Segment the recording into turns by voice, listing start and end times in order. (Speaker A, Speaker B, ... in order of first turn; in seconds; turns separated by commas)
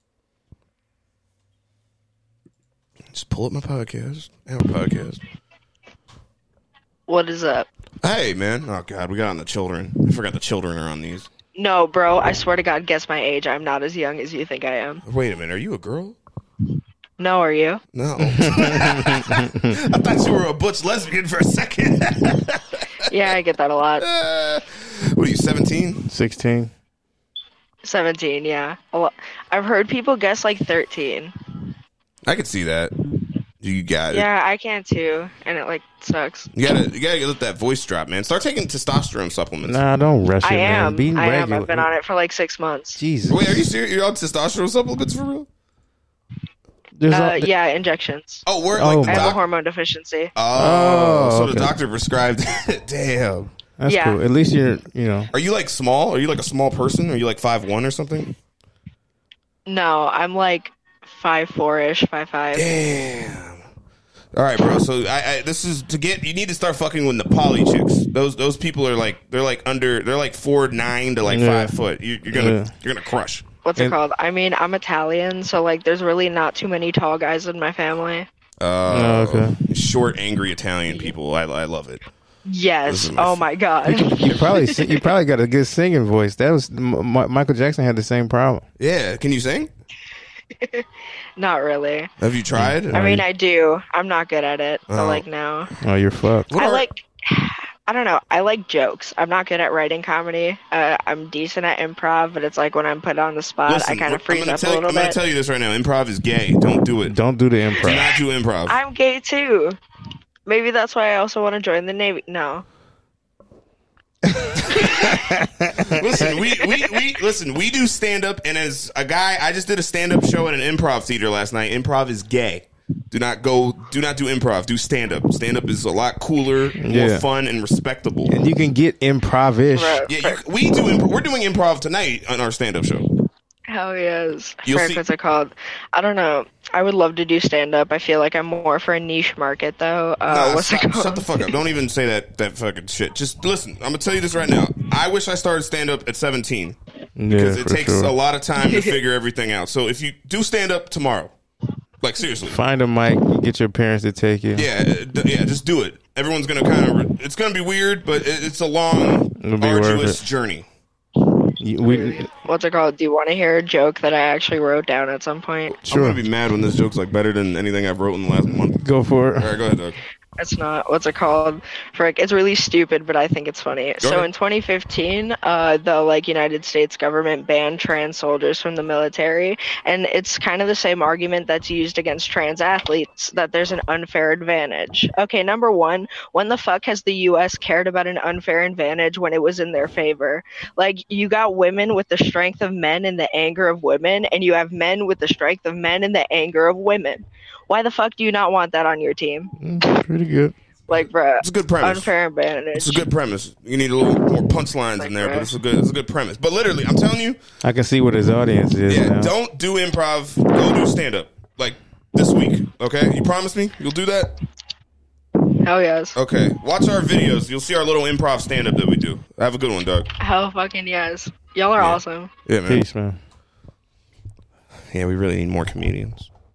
Speaker A: 3.1-5.2, Speaker B: 7.1-7.7, Speaker A: 8.0-11.3, Speaker B: 11.6-15.0, Speaker A: 15.0-16.2, Speaker B: 17.2-17.8, Speaker A: 17.9-23.0, Speaker C: 18.2-19.8, Speaker B: 23.1-24.1, Speaker A: 24.0-26.0, Speaker C: 26.1-26.7, Speaker B: 27.8-31.3, Speaker A: 32.3-32.9, Speaker A: 33.6-34.2, Speaker B: 34.1-36.5, Speaker A: 36.5-39.8, Speaker C: 39.6-41.9, Speaker B: 40.4-43.0, Speaker C: 43.0-43.6, Speaker A: 43.3-45.5, Speaker C: 47.0-47.5, Speaker B: 47.1-48.4, Speaker A: 48.5-49.4, Speaker C: 48.7-49.4, Speaker B: 49.0-50.3, Speaker A: 50.3-53.5, Speaker C: 50.5-51.7, Speaker C: 53.8-55.3, Speaker B: 53.9-54.2, Speaker A: 55.3-58.3, Speaker B: 59.6-62.7, Speaker A: 62.5-63.6, Speaker A: 64.3-73.4, Speaker C: 71.2-71.8, Speaker C: 72.3-72.7, Speaker B: 73.6-78.3, Speaker A: 78.6-82.0, Speaker C: 78.9-79.6, Speaker B: 82.5-85.0, Speaker A: 82.8-83.4, Speaker C: 83.8-88.6, Speaker A: 88.8-89.7, Speaker B: 90.6-90.8, Speaker B: 91.4-92.1, Speaker A: 92.2-93.2, Speaker C: 92.5-93.2, Speaker B: 92.9-95.7, Speaker A: 94.9-95.2, Speaker C: 95.8-96.5, Speaker A: 96.5-96.8, Speaker B: 96.5-105.2, Speaker A: 103.7-107.2, Speaker C: 107.0-108.1, Speaker A: 107.8-108.8, Speaker B: 108.7-109.8, Speaker B: 110.5-112.6, Speaker A: 114.7-115.2, Speaker C: 115.1-116.2, Speaker A: 115.9-128.4, Speaker C: 126.8-127.2, Speaker C: 128.3-130.0, Speaker B: 129.7-130.4, Speaker A: 130.1-133.1, Speaker B: 133.7-141.5, Speaker A: 134.6-135.0, Speaker A: 140.3-146.8, Speaker C: 147.2-148.1, Speaker A: 147.3-151.3, Speaker B: 148.6-149.0, Speaker A: 152.0-152.6, Speaker C: 152.4-154.7, Speaker A: 154.5-160.7, Speaker C: 159.4-160.2, Speaker C: 161.6-162.3, Speaker B: 161.8-165.8, Speaker A: 165.8-168.8, Speaker C: 165.9-166.2, Speaker C: 168.8-169.5, Speaker A: 169.3-170.0, Speaker B: 170.4-199.5, Speaker A: 174.0-174.3, Speaker C: 199.6-200.5, Speaker B: 200.9-203.1, Speaker A: 201.4-202.1, Speaker A: 202.7-207.4, Speaker B: 205.0-205.5, Speaker C: 207.6-209.3, Speaker A: 208.9-214.3, Speaker B: 215.6-216.2, Speaker A: 216.1-220.1, Speaker B: 220.2-222.3, Speaker A: 221.8-222.8, Speaker C: 222.7-223.2, Speaker A: 224.9-226.3